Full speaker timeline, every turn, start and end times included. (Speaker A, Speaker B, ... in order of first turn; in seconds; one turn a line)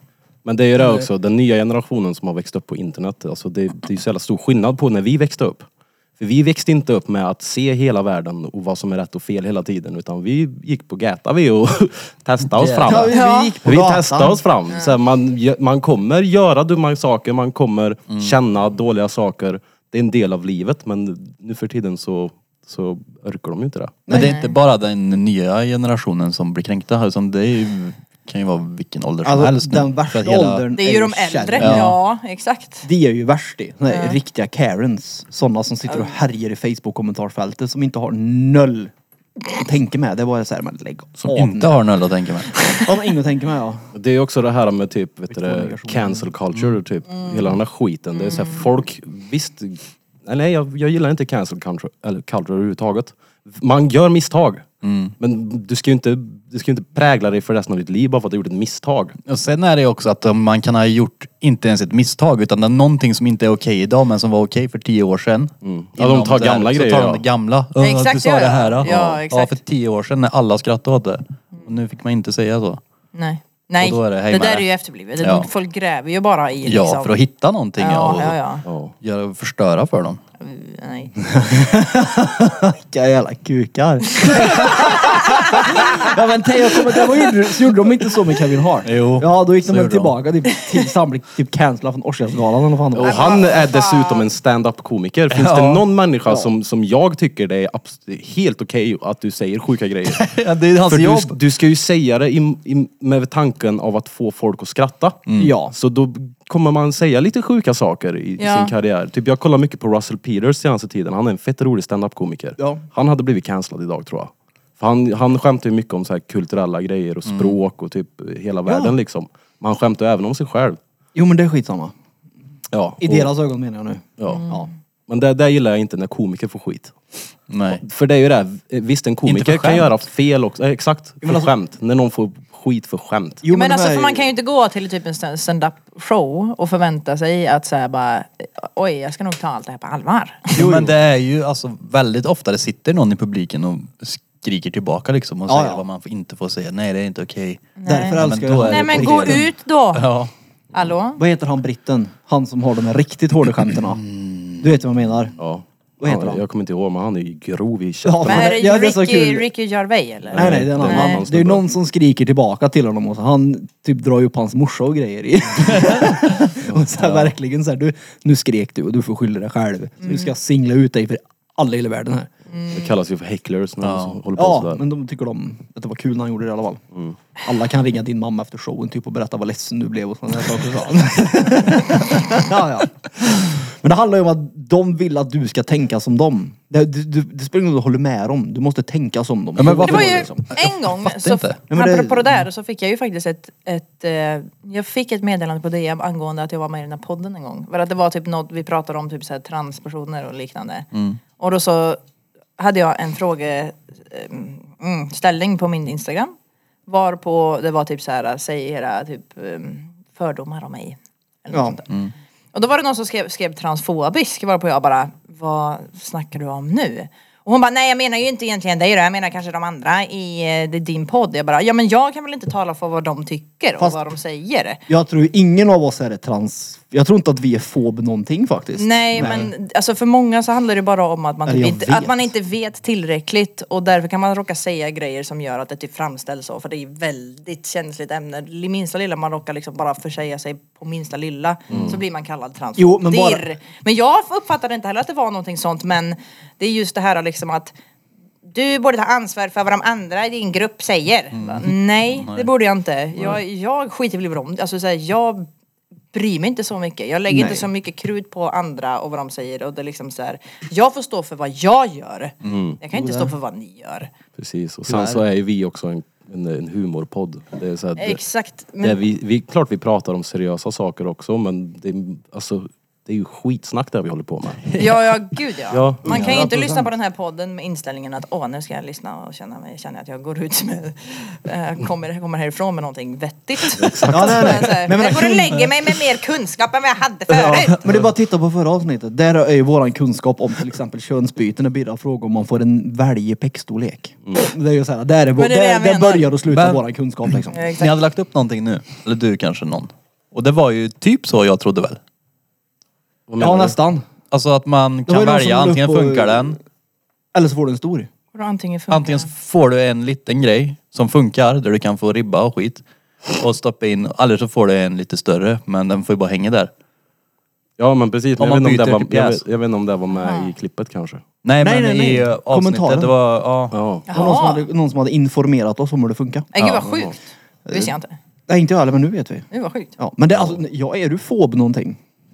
Speaker A: 0.4-5.7
Speaker A: 6.2-24.0
Speaker B: 12.5-13.1
Speaker C: 12.8-14.4
Speaker D: 13.1-13.5
Speaker B: 18.1-18.3
Speaker C: 24.1-24.3
Speaker B: 24.1-30.6
Speaker D: 24.1-24.5
Speaker C: 29.2-31.9
Speaker D: 30.8-32.9
Speaker B: 31.6-32.0
Speaker C: 32.8-38.9
Speaker D: 33.9-34.2
Speaker D: 35.9-36.1
Speaker C: 39.5-41.7
Speaker B: 41.3-42.5
Speaker C: 42.8-43.9
Speaker A: 43.9-54.6
Speaker C: 45.3-46.3
Speaker D: 48.1-48.6
Speaker B: 54.8-55.1
Speaker A: 55.2-59.1
Speaker B: 59.2-72.8
Speaker A: 65.6-67.2
Speaker D: 67.8-69.6
Speaker A: 68.8-69.2
Speaker D: 73.1-77.1
Speaker B: 73.8-74.7
Speaker B: 75.2-75.5
Speaker B: 76.6-78.4
Speaker D: 77.8-78.6
Speaker A: 78.6-78.9
Speaker B: 79.0-80.2
Speaker D: 80.4-81.2
Speaker C: 81.2-93.4
Speaker D: 84.3-85.8
Speaker B: 88.8-90.1
Speaker A: 92.9-100.3
Speaker D: 93.0-94.3
Speaker B: 95.3-95.8
Speaker B: 100.1-101.4
Speaker A: 100.9-120.8
Speaker B: 105.3-105.5
Speaker C: 105.4-105.7
Speaker D: 108.4-108.7
Speaker C: 112.6-112.8
Speaker B: 117.3-117.6
Speaker C: 118.7-118.9
Speaker C: 121.1-121.9
Speaker A: 122.7-123.3
Speaker C: 123.0-124.7
Speaker A: 124.2-124.5
Speaker D: 124.3-124.7
Speaker A: 125.1-127.0
Speaker B: 127.5-127.8
Speaker A: 127.7-133.4
Speaker B: 129.2-130.0
Speaker C: 131.2-131.5
Speaker C: 133.4-134.2
Speaker D: 133.5-140.6
Speaker B: 140.5-150.3
Speaker C: 140.6-140.9
Speaker C: 145.5-145.8
Speaker D: 147.8-150.1
Speaker C: 147.8-149.5
Speaker D: 150.7-151.2
Speaker C: 151.2-154.0
Speaker B: 154.0-154.6
Speaker C: 154.6-155.3
Speaker A: 155.4-158.6
Speaker C: 156.0-156.4
Speaker C: 158.0-159.5
Speaker D: 158.2-161.2
Speaker A: 160.3-161.6
Speaker C: 160.3-172.3
Speaker A: 166.6-167.3
Speaker D: 170.0-170.3
Speaker D: 172.5-172.9
Speaker A: 172.7-174.8
Speaker B: 173.8-174.2
Speaker C: 174.3-176.8
Speaker C: 177.4-190.4
Speaker B: 189.6-191.6
Speaker D: 189.8-202.0
Speaker C: 191.7-192.4
Speaker B: 200.9-201.2
Speaker D: 202.6-206.3
Speaker D: 206.9-224.8
Speaker C: 211.5-211.8
Speaker C: 224.9-229.5
Speaker D: 228.8-247.7
Speaker C: 231.4-232.3
Speaker A: 241.7-242.0
Speaker C: 242.8-243.4
Speaker D: 248.5-255.5
Speaker B: 251.3-252.5
Speaker D: 256.1-264.1
Speaker C: 257.3-257.7
Speaker A: 262.4-262.8
Speaker C: 262.9-263.3
Speaker A: 264.4-268.2
Speaker C: 264.9-265.2
Speaker D: 268.0-269.0
Speaker A: 268.8-274.8
Speaker D: 274.7-287.8
Speaker A: 275.7-276.4
Speaker C: 276.0-276.9
Speaker A: 283.7-284.9
Speaker C: 284.1-285.9
Speaker C: 287.3-297.6
Speaker D: 295.4-296.3
Speaker B: 296.5-296.8
Speaker D: 297.5-297.9
Speaker B: 297.8-302.0
Speaker A: 303.3-303.8
Speaker C: 303.4-304.0
Speaker B: 304.3-306.6
Speaker C: 305.1-306.5
Speaker C: 307.3-308.1
Speaker D: 308.3-309.3
Speaker B: 308.9-312.8
Speaker B: 313.4-316.7
Speaker A: 317.8-321.2
Speaker B: 318.4-319.4
Speaker D: 320.1-320.5
Speaker B: 321.4-323.8
Speaker C: 321.6-323.1
Speaker A: 323.7-324.1
Speaker D: 324.1-324.6
Speaker C: 324.1-326.5
Speaker D: 326.5-327.2
Speaker A: 326.6-327.1
Speaker C: 327.7-327.9
Speaker D: 327.7-328.2
Speaker C: 328.5-332.0
Speaker D: 329.5-329.9